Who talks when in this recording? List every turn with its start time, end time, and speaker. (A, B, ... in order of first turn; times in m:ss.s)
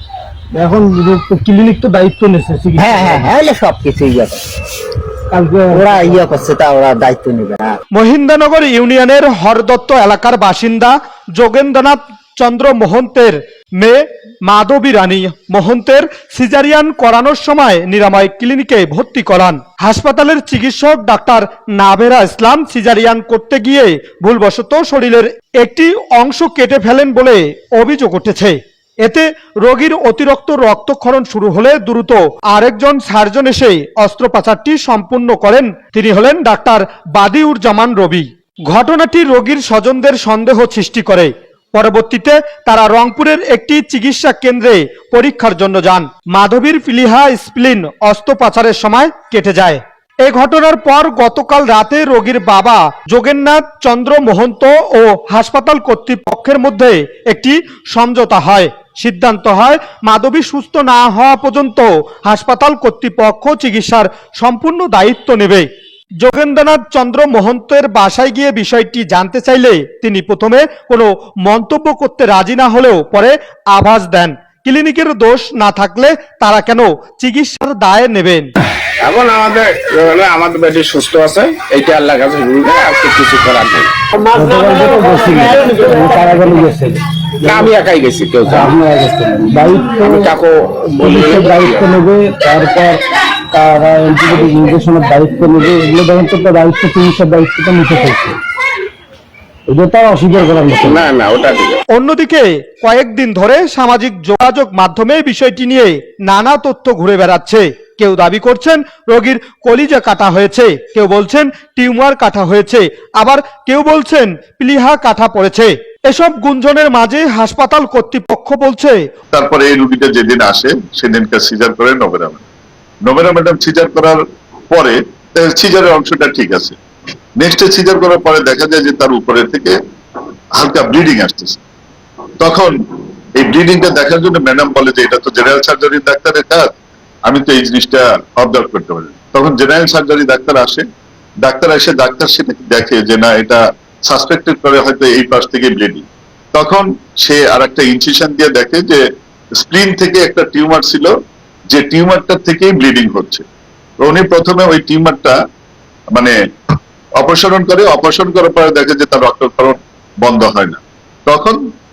0:00.5-0:03.2 A
0:02.8-0:04.4 B
0:05.3-0:06.1 A
0:05.7-0:07.8 B
0:07.9-1:05.7 C
1:06.2-1:18.5 C
1:19.0-1:24.0 D
1:24.3-1:27.7 A
1:27.4-1:28.7 D
1:28.5-1:30.3 A
1:30.0-1:31.9 D
1:31.0-1:38.4 A
1:39.7-1:41.1 A
1:40.7-1:41.8 D
1:41.9-1:59.0 C
1:59.3-2:02.4 E
2:03.0-2:06.8 E
2:07.4-2:09.8 E
2:10.6-2:11.6 E
2:12.4-2:12.7 E
2:13.4-2:16.7 E
2:17.3-2:20.8 E
2:21.4-2:29.0 E
2:29.6-2:31.1 E
2:31.7-2:33.4 E
2:34.0-2:35.4 E
2:37.2-2:41.6 E